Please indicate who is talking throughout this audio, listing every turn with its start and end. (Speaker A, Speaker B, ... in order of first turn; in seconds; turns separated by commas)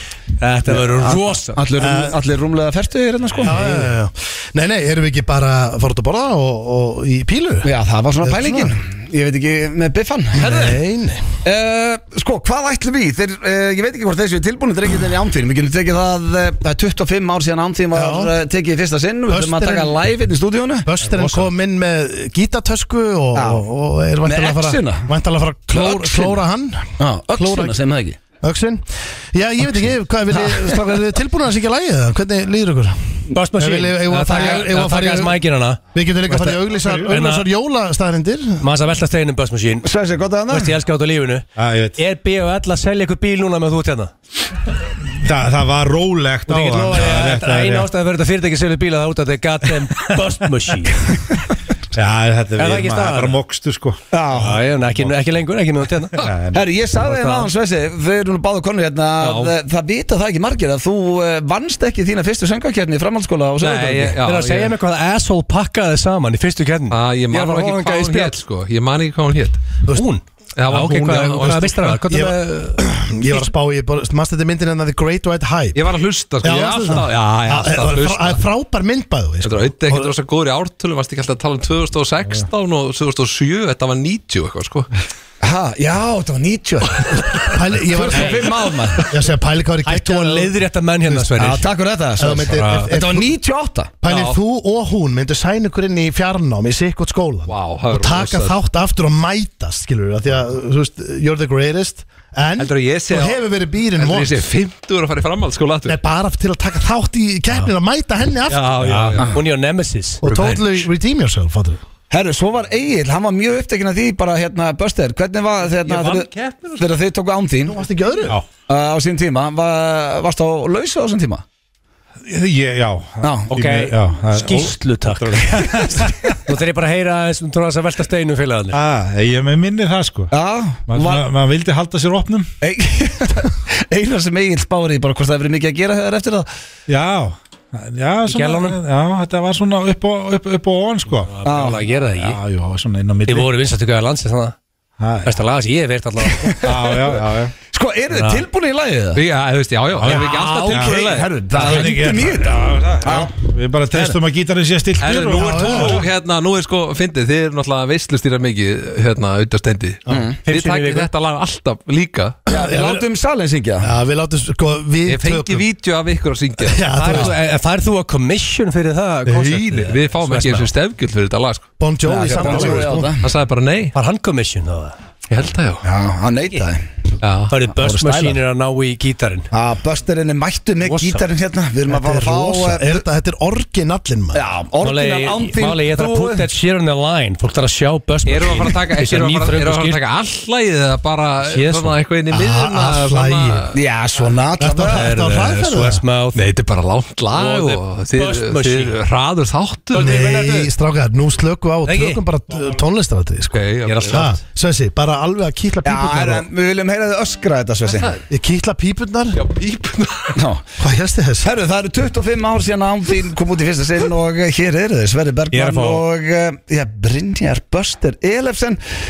Speaker A: 0.4-1.6, Speaker B: 0.7-3.8, Speaker C: 1.8-2.1, Speaker C: 3.4-7.7, Speaker B: 7.6-10.8, Speaker C: 8.2-8.8, Speaker C: 10.3-11.2, Speaker B: 11.4-20.9, Speaker C: 17.9-18.3, Speaker C: 19.3-20.0, Speaker C: 20.8-27.8, Speaker B: 23.3-23.6, Speaker B: 24.2-25.1, Speaker B: 25.7-26.4, Speaker B: 27.0-28.2, Speaker C: 28.4-35.4, Speaker B: 30.4-30.8, Speaker A: 33.3-35.8, Speaker C: 35.9-38.6, Speaker D: 36.5-37.1, Speaker A: 37.1-37.4, Speaker A: 38.6-39.9, Speaker B: 39.8-40.7, Speaker A: 40.5-44.1, Speaker D: 41.6-42.0, Speaker D: 45.2-47.9, Speaker A: 46.5-51.0, Speaker D: 51.9-54.0, Speaker A: 52.6-53.4, Speaker B: 54.1-54.6, Speaker A: 54.3-56.3, Speaker D: 56.2-56.6, Speaker B: 56.5-64.2, Speaker A: 57.0-57.5, Speaker A: 59.2-59.5, Speaker E: 63.6-64.7, Speaker A: 63.6-68.4, Speaker E: 66.9-69.6, Speaker A: 69.9-73.4, Speaker E: 70.5-72.0, Speaker C: 72.1-75.8, Speaker E: 75.7-78.4, Speaker C: 76.4-80.1, Speaker E: 79.4-84.9, Speaker B: 85.4-89.0, Speaker C: 87.4-90.5, Speaker A: 88.1-88.7, Speaker A: 89.8-91.6, Speaker B: 91.4-94.0, Speaker C: 92.2-93.3, Speaker A: 92.5-92.9, Speaker C: 94.0-104.5, Speaker E: 94.0-94.4, Speaker E: 97.5-98.5, Speaker E: 102.6-103.4, Speaker E: 104.0-106.0, Speaker C: 105.8-108.8, Speaker A: 108.5-110.9, Speaker E: 108.5-109.2, Speaker D: 108.8-109.2, Speaker C: 110.2-111.8, Speaker B: 112.1-117.8, Speaker A: 115.9-116.2, Speaker E: 116.0-116.6, Speaker C: 117.7-118.4, Speaker B: 118.7-121.4, Speaker D: 122.2-126.2, Speaker B: 123.2-123.5, Speaker A: 123.5-128.8, Speaker D: 128.7-130.3, Speaker B: 130.3-131.2, Speaker D: 130.9-132.5, Speaker B: 132.6-136.5, Speaker D: 136.9-141.3, Speaker A: 138.2-138.8, Speaker A: 141.3-142.4, Speaker B: 141.4-141.8, Speaker D: 142.1-143.5, Speaker A: 143.2-144.5, Speaker D: 145.0-145.3, Speaker A: 145.2-146.5, Speaker B: 146.3-149.2, Speaker D: 146.6-147.5, Speaker A: 148.1-148.4, Speaker E: 149.1-152.0, Speaker D: 149.9-156.1, Speaker B: 150.1-153.3, Speaker A: 151.6-151.9, Speaker E: 155.0-162.4, Speaker C: 155.3-156.0, Speaker B: 160.1-160.4, Speaker A: 160.4-161.1, Speaker C: 162.5-163.0, Speaker B: 162.5-163.9, Speaker C: 163.8-165.6, Speaker E: 165.1-167.3, Speaker C: 166.6-167.4, Speaker A: 166.9-170.7, Speaker E: 169.3-171.7, Speaker C: 171.8-173.1, Speaker B: 172.1-173.3, Speaker E: 173.2-173.9, Speaker A: 173.9-174.9, Speaker E: 175.3-175.8, Speaker B: 175.8-176.8, Speaker E: 177.2-177.5, Speaker A: 177.5-179.5, Speaker B: 177.7-178.4, Speaker B: 179.5-183.0, Speaker A: 180.8-181.2, Speaker C: 181.9-184.4, Speaker B: 184.3-186.4, Speaker A: 184.8-190.0, Speaker E: 188.2-193.7, Speaker A: 191.4-191.9, Speaker C: 192.3-193.6, Speaker B: 193.7-195.1, Speaker C: 194.6-196.0, Speaker A: 194.9-196.4, Speaker E: 196.3-200.1, Speaker A: 197.3-198.9, Speaker A: 199.9-200.7, Speaker C: 199.9-206.5, Speaker A: 201.8-202.2, Speaker E: 203.5-204.2, Speaker A: 203.8-204.4, Speaker B: 205.8-208.1, Speaker E: 207.9-208.2, Speaker C: 208.3-209.4, Speaker E: 209.3-210.4, Speaker B: 210.4-210.6, Speaker C: 210.8-211.5, Speaker B: 211.4-218.8, Speaker A: 215.5-216.0